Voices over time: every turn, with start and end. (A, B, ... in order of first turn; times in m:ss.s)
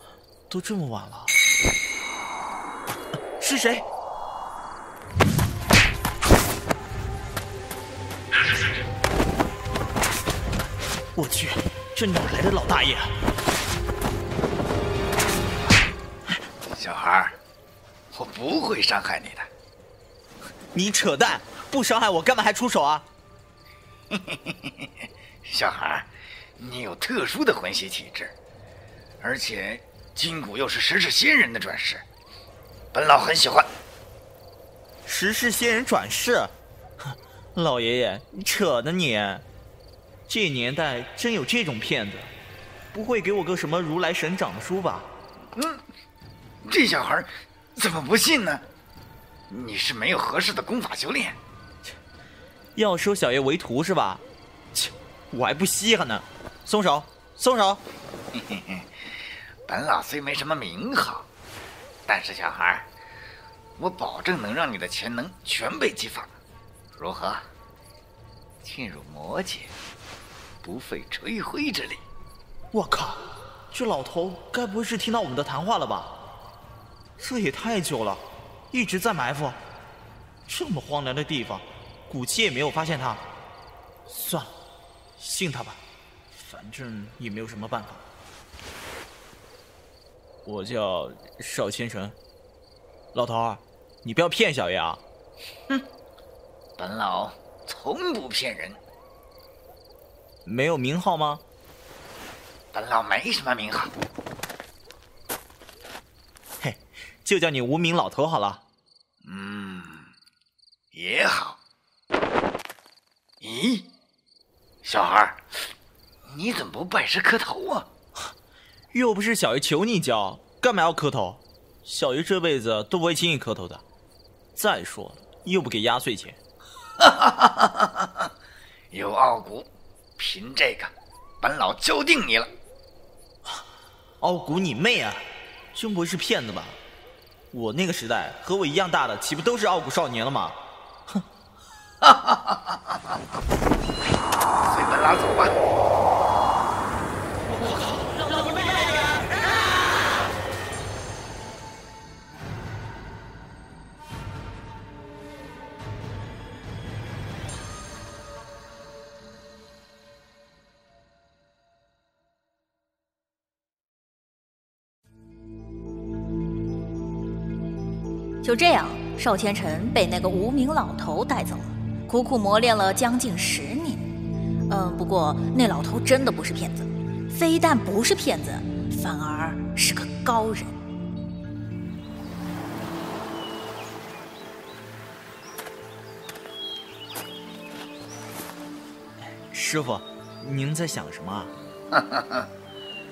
0:00.5-0:01.3 A
0:03.4-0:03.8 A
0:11.1-0:13.1 A
0:16.7-0:17.4 B
0:18.1-0:19.5 B
0:20.7-0:23.0 A
0:24.1-0:24.9 B
0:25.4-0:28.3 B
0:29.2-0:32.0 B
0:32.9-0:33.7 B
0:35.0-0:36.5 A
0:37.6-0:39.4 A
0:40.3-0:42.3 A
0:42.9-0:45.1 A
0:45.5-0:45.8 B
0:46.6-0:48.6 B
0:49.5-0:51.4 B
0:52.8-0:54.2 A
0:54.7-0:57.8 A
0:58.3-0:58.9 B
0:59.6-1:01.3 B
1:02.0-1:02.9 B
1:03.8-1:06.4 B
1:06.9-1:07.4 B
1:08.6-1:09.7 B
1:10.6-1:12.0 B
1:12.7-1:13.2 A
1:13.7-1:16.1 A
1:17.2-1:19.6 A
1:20.5-1:23.2 A
1:24.1-1:24.5 A
1:25.2-1:25.8 A
1:26.4-1:28.0 A
1:30.4-1:32.2 A
1:33.1-1:35.0 A
1:36.8-1:38.8 B
1:40.4-1:41.4 A
1:42.7-1:43.9 B
1:46.6-1:48.6 A
1:49.2-1:50.1 B
1:50.9-1:51.6 B
1:53.4-1:53.9 B
1:54.8-1:55.4 B
1:56.3-1:57.9 B
1:58.9-2:03.8 A
2:04.6-2:06.4 A
2:07.0-2:08.3 B
2:08.9-2:12.5 B
2:14.2-2:15.2 A
2:15.7-2:16.8 A
2:17.5-2:20.6 A
2:22.0-2:23.0 B
2:24.6-2:25.5 B
2:48.4-2:54.0 C
2:54.7-3:00.7 C
3:09.5-3:11.5 A
3:11.9-3:12.5 B